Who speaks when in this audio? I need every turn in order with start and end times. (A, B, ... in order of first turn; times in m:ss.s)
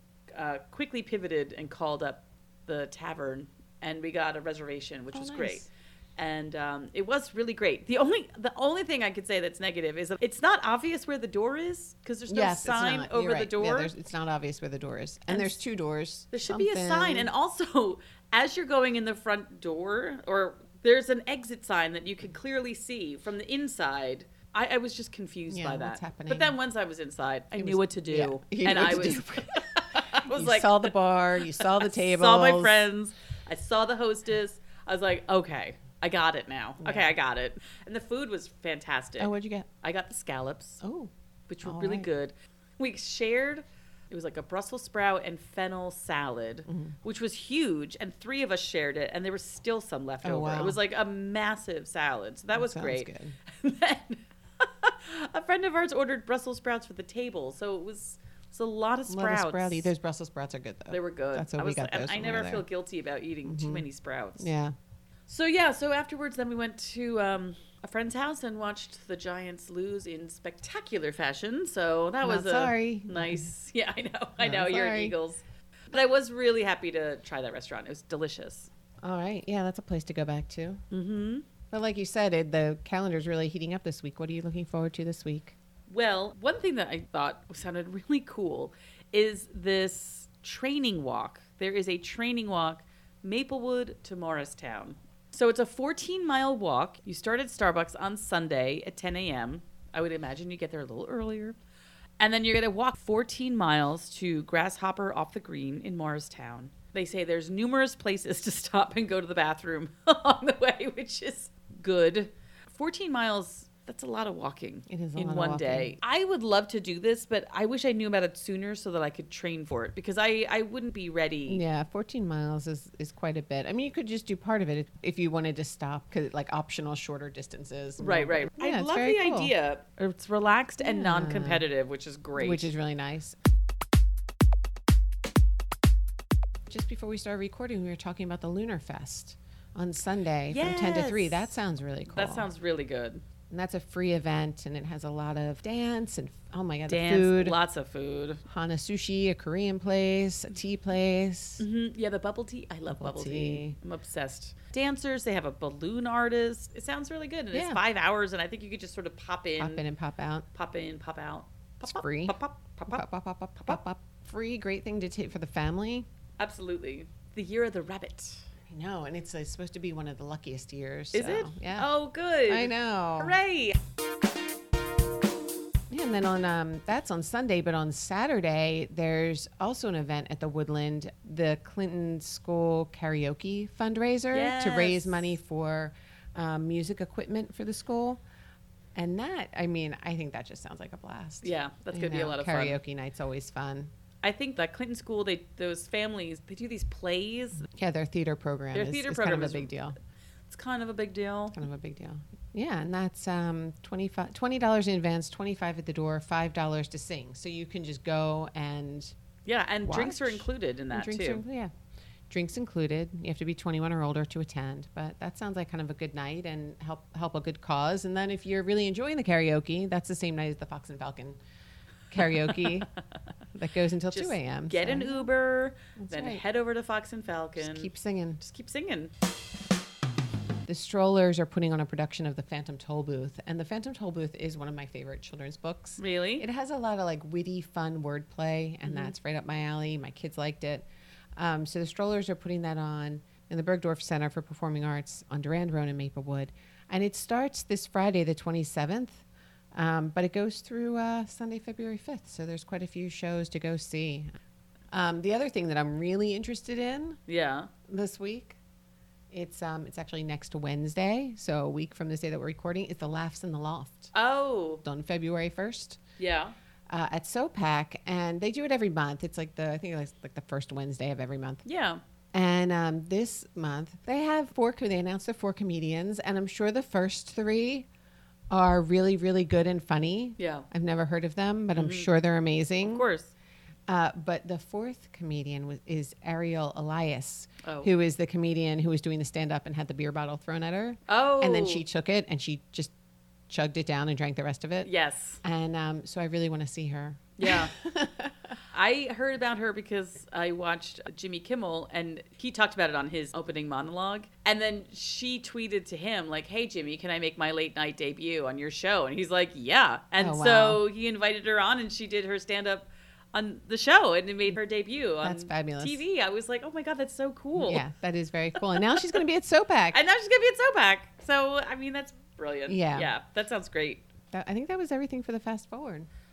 0:00.3-0:13.9 A
0:05.1-0:05.7 B
0:12.3-0:17.3 B
0:15.3-0:15.6 A
0:16.3-0:39.3 A
0:25.5-0:26.5 B
0:27.5-0:29.6 B
0:30.2-0:32.9 B
0:36.8-0:37.1 B
0:39.2-0:39.7 B
0:39.8-0:40.8 A
0:40.8-0:41.1 B
0:41.5-0:59.9 A
0:41.6-0:42.1 B
0:46.7-0:47.0 B
0:50.2-0:50.8 B
0:52.5-0:53.4 B
0:59.1-1:02.6 B
1:00.9-1:04.5 A
1:03.4-1:03.8 B
1:04.4-1:04.7 B
1:05.3-1:18.7 A
1:12.2-1:13.5 B
1:14.4-1:15.1 B
1:19.0-1:20.8 B
1:20.9-1:21.5 A
1:21.7-1:25.6 B
1:25.9-1:41.6 A
1:42.2-2:01.6 A
1:54.9-1:56.0 B
2:01.5-2:09.5 B
2:08.0-2:12.7 A
2:10.8-2:11.6 B
2:12.4-2:13.4 B
2:16.7-2:22.5 B
2:20.5-2:21.5 A
2:22.1-2:23.2 A
2:23.5-2:27.6 B
2:26.9-2:28.4 A
2:28.5-2:31.6 B
2:31.6-2:39.8 A
2:32.9-2:33.8 B
2:37.5-2:37.8 B
2:39.6-2:40.4 B
2:40.5-2:43.0 A
2:41.8-2:42.3 B
2:42.9-2:46.0 B
2:46.4-2:48.4 A
2:48.7-2:51.9 B
2:51.1-2:53.8 A
2:52.5-2:53.4 B
2:55.9-3:08.2 B
3:04.3-3:05.3 A
3:09.0-3:13.9 B
3:11.4-3:12.8 A
3:14.2-3:17.6 A
3:17.7-3:20.0 B
3:18.7-3:19.7 A
3:20.5-3:21.6 A
3:21.5-3:29.1 B
3:29.4-3:31.4 A
3:29.8-3:31.7 B
3:32.3-3:41.4 B
3:42.1-3:42.9 B
3:42.4-3:42.8 A
3:43.5-3:45.3 B
3:44.1-3:49.1 A
3:46.0-3:46.4 B
3:47.6-3:48.4 B
3:50.7-4:09.2 B
3:56.0-3:56.4 A
3:58.8-3:59.1 A
4:09.7-4:14.3 B
4:14.9-4:17.2 B
4:17.3-4:17.7 A
4:17.9-4:18.6 B
4:19.3-4:24.1 B
4:24.1-4:24.8 A
4:24.8-4:26.0 B
4:26.2-4:26.5 A
4:26.9-4:31.6 B
4:31.6-4:32.0 A
4:32.3-4:37.9 B
4:38.5-4:43.0 B
4:40.4-4:40.7 A
4:41.7-4:42.1 A
4:42.9-4:43.3 A
4:43.9-4:52.9 B
4:47.6-4:47.9 A
4:51.1-4:51.8 A
4:53.5-4:54.9 B
4:54.8-4:55.4 A
4:55.4-4:58.3 B
4:57.4-4:57.7 A
4:58.7-5:17.8 A
5:10.2-5:10.8 B
5:15.2-5:16.0 B
5:17.6-5:20.0 B
5:18.8-5:19.0 A
5:19.9-5:24.0 A
5:22.7-5:23.1 B
5:24.3-5:26.1 B